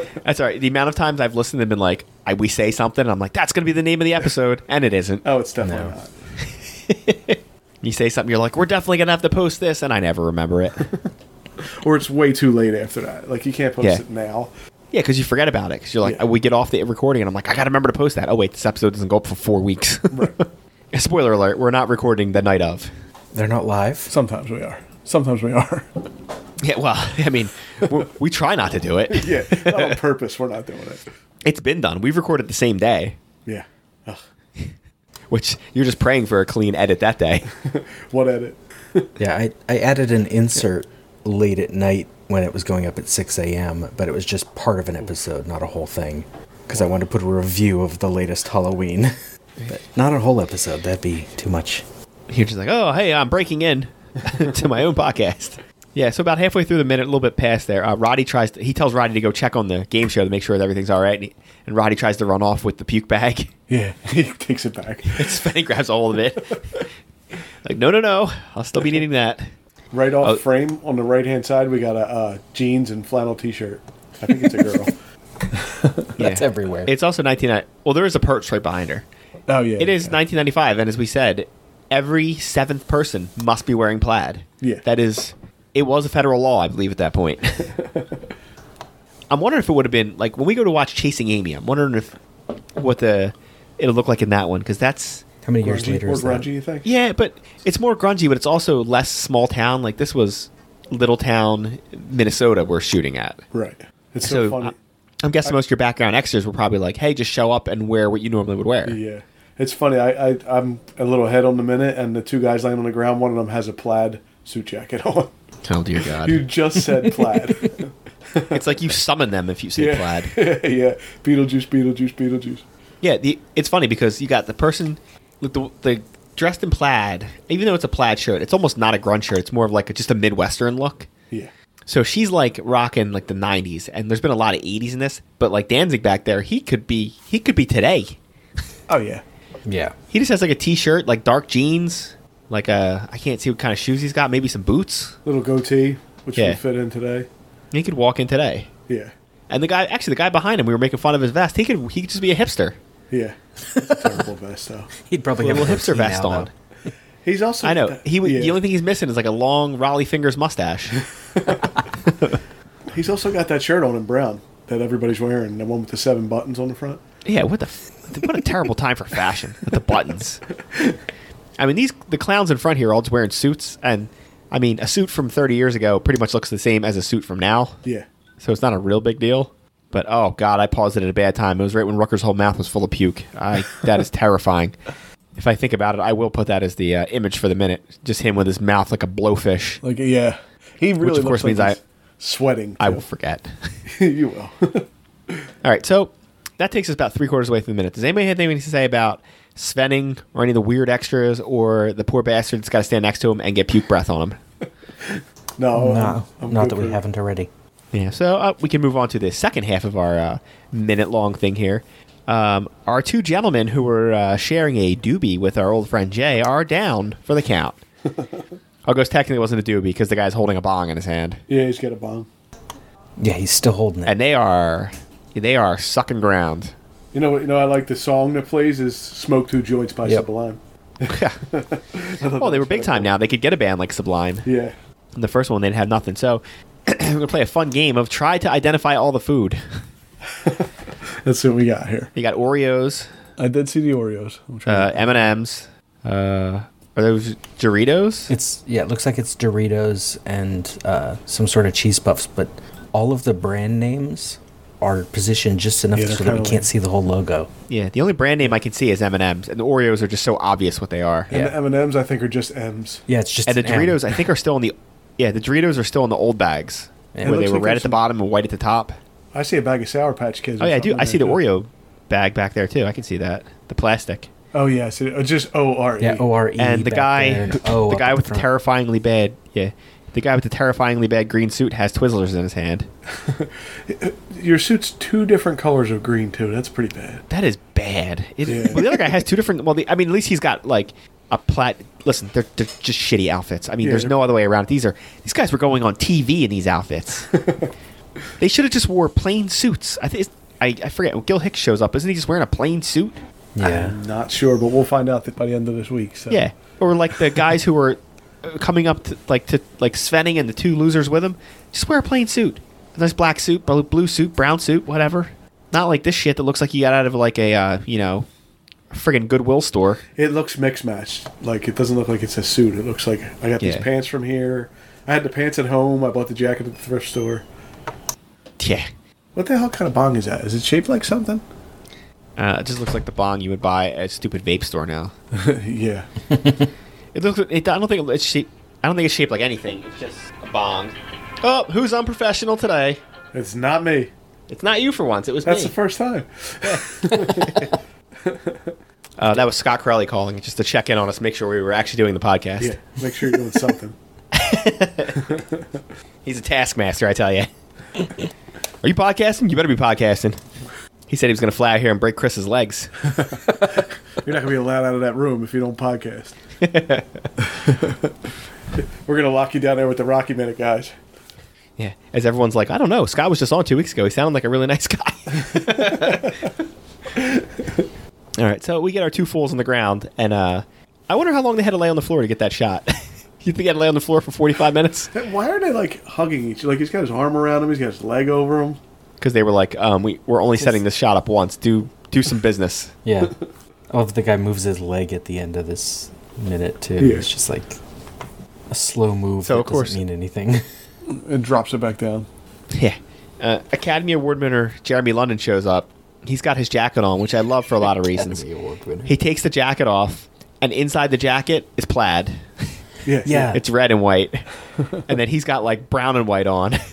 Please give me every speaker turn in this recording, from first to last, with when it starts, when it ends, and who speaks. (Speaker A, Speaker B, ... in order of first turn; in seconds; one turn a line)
Speaker A: 0.2-5.2
Speaker B: 5.2-6.1
Speaker C: 5.6-6.0
Speaker A: 6.4-10.8
Speaker B: 11.8-14.5
Speaker A: 14.9-20.3
Speaker B: 20.1-20.4
Speaker A: 20.9-22.9
Speaker C: 23.3-24.1
Speaker B: 24.1-25.9
Speaker A: 26.6-29.9
Speaker B: 29.1-31.0
Speaker A: 31.4-33.1
Speaker B: 33.5-34.2
Speaker A: 35.3-37.5
Speaker B: 37.6-39.1
Speaker C: 39.2-49.1
Speaker C: 49.6-51.8
Speaker A: 52.3-63.5
Speaker B: 63.7-65.4
Speaker A: 65.0-66.8
Speaker A: 67.6-69.4
Speaker B: 69.9-74.9
Speaker B: 75.5-76.0
Speaker A: 76.2-79.0
Speaker C: 76.2-76.9
Speaker B: 79.5-80.2
Speaker A: 79.8-87.7
Speaker B: 87.7-88.2
Speaker A: 89.3-92.1
Speaker A: 92.8-95.2
Speaker C: 95.4-96.5
Speaker B: 95.6-96.9
Speaker A: 96.8-103.4
Speaker B: 103.5-104.8
Speaker A: 104.2-109.0
Speaker B: 108.8-115.3
Speaker A: 115.6-116.4
Speaker B: 116.2-118.6
Speaker A: 118.5-120.3
Speaker B: 119.8-122.6
Speaker A: 123.0-131.1
Speaker A: 131.8-138.2
Speaker B: 138.9-139.2
Speaker C: 139.6-139.9
Speaker A: 140.1-145.2
Speaker B: 145.2-147.3
Speaker A: 147.7-148.7
Speaker A: 149.5-152.8
Speaker B: 153.1-153.3
Speaker C: 153.7-154.2
Speaker B: 153.9-154.9
Speaker C: 155.0-156.5
Speaker A: 155.4-156.5
Speaker B: 157.2-158.6
Speaker A: 157.6-161.0
Speaker B: 161.2-161.7
Speaker A: 162.0-162.4
Speaker B: 162.9-167.0
Speaker A: 167.2-170.4
Speaker A: 171.6-177.8
Speaker A: 178.4-184.7
Speaker A: 185.3-189.8
Speaker B: 189.8-193.0
Speaker A: 191.0-191.8
Speaker A: 192.8-193.7
Speaker B: 193.9-195.4
Speaker A: 195.6-204.4
Speaker B: 205.0-207.0
Speaker C: 205.7-207.5
Speaker A: 207.9-217.8
Speaker B: 218.1-218.4
Speaker A: 218.8-221.4
Speaker B: 221.5-222.3
Speaker C: 223.2-224.1
Speaker A: 224.0-226.7
Speaker B: 227.1-233.1
Speaker A: 231.1-231.4
Speaker A: 232.4-234.4
Speaker B: 234.4-234.7
Speaker A: 235.1-239.6
Speaker B: 240.4-240.7
Speaker B: 241.2-242.1
Speaker A: 242.1-243.1
Speaker B: 243.4-245.1
Speaker A: 244.7-248.3
Speaker C: 248.3-257.5
Speaker B: 255.9-256.7
Speaker A: 257.7-261.3
Speaker B: 261.3-263.0
Speaker C: 263.1-264.1
Speaker A: 263.4-268.9
Speaker C: 267.1-267.5
Speaker B: 267.2-268.0
Speaker B: 269.3-271.4
Speaker A: 270.6-274.3
Speaker B: 274.5-276.3
Speaker C: 276.0-278.5
Speaker A: 276.6-282.9
Speaker B: 283.2-287.2
Speaker A: 287.3-297.3
Speaker B: 288.4-289.1
Speaker B: 293.8-294.1
Speaker B: 297.4-297.7
Speaker A: 298.4-303.2
Speaker C: 303.6-303.9
Speaker B: 303.6-306.4
Speaker A: 306.3-318.3
Speaker A: 318.9-320.0
Speaker B: 320.2-327.4
Speaker A: 323.6-323.9
Speaker A: 328.6-328.9
Speaker B: 329.3-331.4
Speaker A: 332.4-335.1
Speaker B: 335.3-336.1
Speaker A: 337.1-343.0
Speaker B: 343.3-344.1
Speaker A: 344.5-345.7
Speaker B: 345.4-347.7
Speaker A: 346.6-347.7
Speaker B: 348.2-348.7
Speaker A: 349.2-352.7
Speaker B: 352.6-353.9
Speaker A: 354.3-355.1
Speaker B: 355.1-355.6
Speaker A: 356.2-357.5
Speaker A: 358.8-360.4
Speaker A: 361.1-363.1
Speaker B: 363.1-366.3
Speaker A: 366.6-367.2
Speaker B: 367.6-368.0
Speaker B: 369.0-370.9
Speaker A: 371.8-376.5
Speaker B: 375.4-376.4
Speaker B: 377.1-377.8
Speaker A: 378.4-385.1
Speaker B: 385.1-388.8
Speaker A: 389.2-392.9
Speaker C: 393.0-393.3
Speaker C: 393.9-397.8
Speaker B: 397.0-397.3
Speaker C: 398.7-400.6
Speaker A: 399.4-400.0
Speaker B: 401.1-402.3
Speaker A: 402.7-408.4
Speaker C: 408.0-409.1
Speaker A: 409.0-412.4
Speaker B: 413.0-413.5
Speaker C: 413.2-413.6
Speaker A: 413.5-414.4
Speaker A: 415.1-416.8